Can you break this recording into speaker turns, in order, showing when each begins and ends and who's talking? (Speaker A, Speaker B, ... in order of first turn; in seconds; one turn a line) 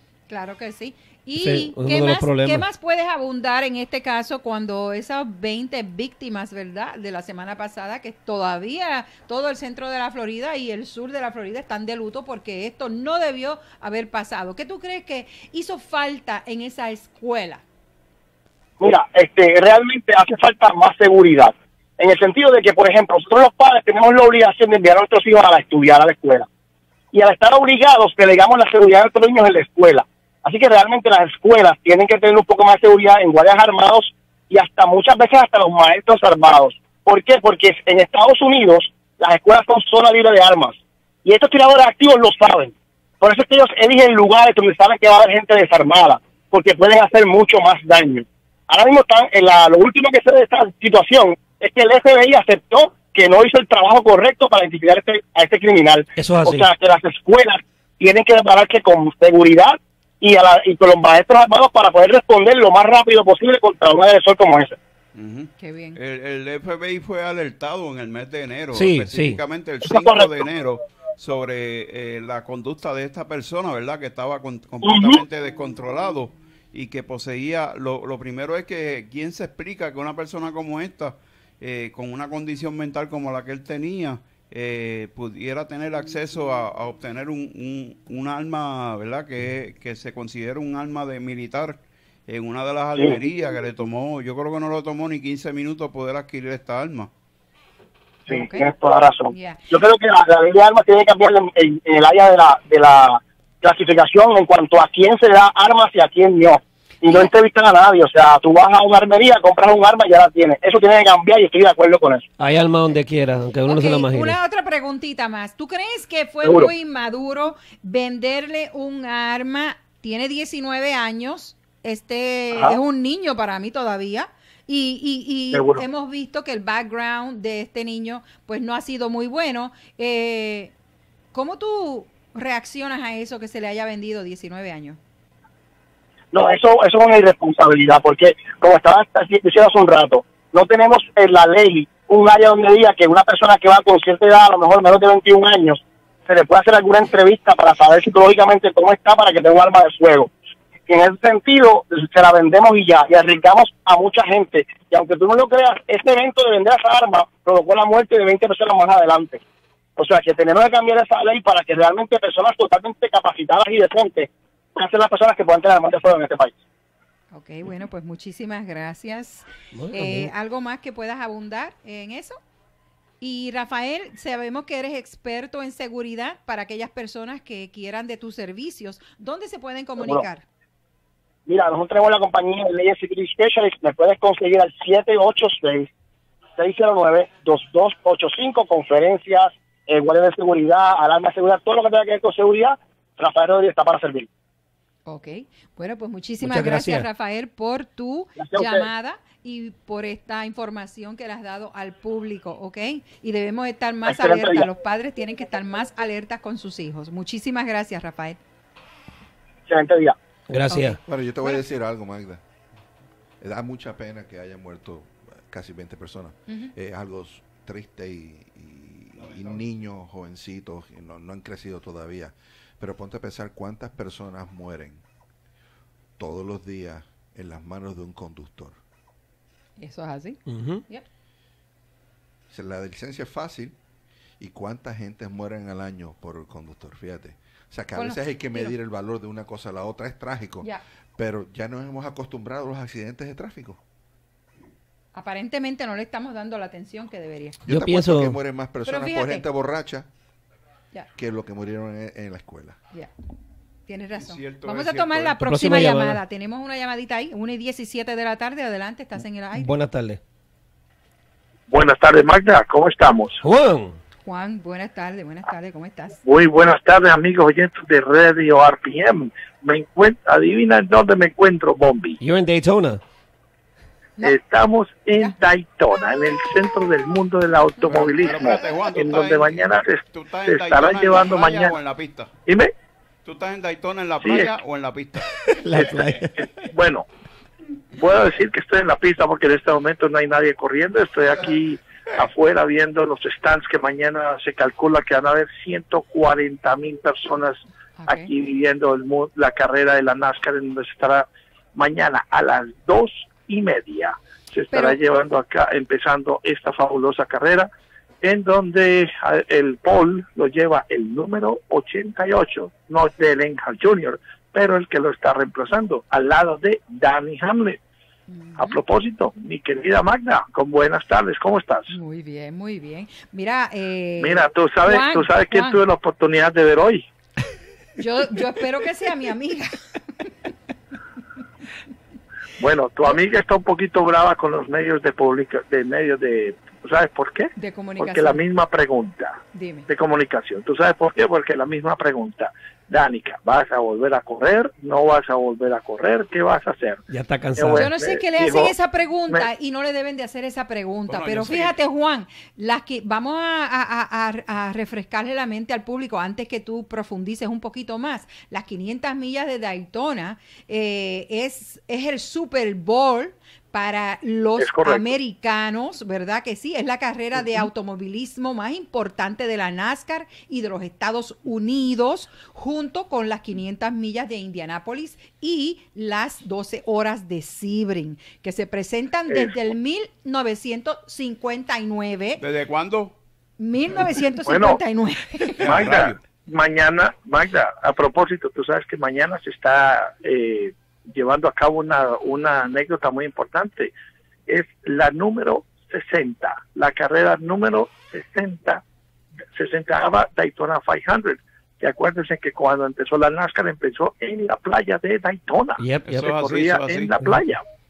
Speaker A: 0.3-17.6
Speaker B: 1.4-2.6
Speaker C: 18.8-26.5
Speaker C: 27.1-64.8
Speaker B: 56.2-56.7
Speaker D: 65.2-97.1
Speaker A: 65.6-66.0
Speaker B: 68.7-69.4
Speaker C: 69.8-70.4
Speaker C: 74.8-75.2
Speaker C: 98.3-112.2
Speaker A: 98.3-98.7
Speaker A: 99.3-99.6
Speaker B: 112.4-114.4
Speaker A: 113.7-130.7
Speaker C: 116.4-116.7
Speaker C: 125.5-125.8
Speaker A: 131.3-135.0
Speaker C: 136.3-150.3
Speaker C: 150.9-159.4
Speaker C: 160.0-166.5
Speaker A: 167.3-172.4
Speaker B: 169.7-170.3
Speaker A: 173.2-180.4
Speaker C: 181.5-185.9
Speaker C: 186.6-194.3
Speaker A: 195.1-208.4
Speaker B: 196.4-197.1
Speaker C: 198.4-198.8
Speaker C: 204.1-204.7
Speaker C: 209.7-210.2
Speaker B: 210.5-211.0
Speaker A: 210.7-211.6
Speaker E: 211.1-212.4
Speaker E: 213.4-225.0
Speaker D: 219.2-219.6
Speaker E: 226.2-228.8
Speaker A: 229.8-231.1
Speaker B: 230.5-230.8
Speaker E: 232.5-233.8
Speaker E: 234.4-243.8
Speaker A: 237.9-238.7
Speaker A: 245.1-247.6
Speaker E: 247.7-250.1
Speaker B: 247.7-248.4
Speaker A: 248.8-249.5
Speaker E: 251.2-252.8
Speaker A: 253.9-259.8
Speaker D: 254.2-255.4
Speaker B: 255.4-256.2
Speaker B: 259.6-260.2
Speaker F: 261.7-263.4
Speaker B: 263.4-264.0
Speaker A: 264.2-266.2
Speaker F: 266.2-272.2
Speaker B: 272.2-273.0
Speaker F: 274.2-281.8
Speaker D: 277.9-282.3
Speaker F: 282.5-282.7
Speaker D: 283.2-285.3
Speaker F: 284.2-284.5
Speaker B: 285.5-286.7
Speaker F: 285.8-286.1
Speaker F: 286.7-287.1
Speaker F: 288.0-307.7
Speaker A: 298.0-298.3
Speaker A: 304.7-305.0
Speaker F: 308.2-317.8
Speaker A: 318.3-318.8
Speaker F: 318.6-321.9
Speaker A: 321.9-325.8
Speaker F: 324.2-327.1
Speaker A: 328.0-329.7
Speaker F: 332.6-347.0
Speaker A: 337.6-338.4
Speaker A: 339.5-339.9
Speaker B: 347.1-347.9
Speaker F: 347.6-348.7
Speaker A: 347.7-382.4
Speaker D: 351.1-351.8
Speaker F: 364.6-365.1
Speaker D: 382.4-383.2
Speaker A: 383.6-385.6
Speaker F: 384.5-384.8
Speaker F: 385.6-393.9
Speaker D: 385.6-386.2
Speaker F: 394.5-398.8
Speaker F: 399.5-407.6
Speaker B: 405.8-406.3
Speaker D: 406.1-407.1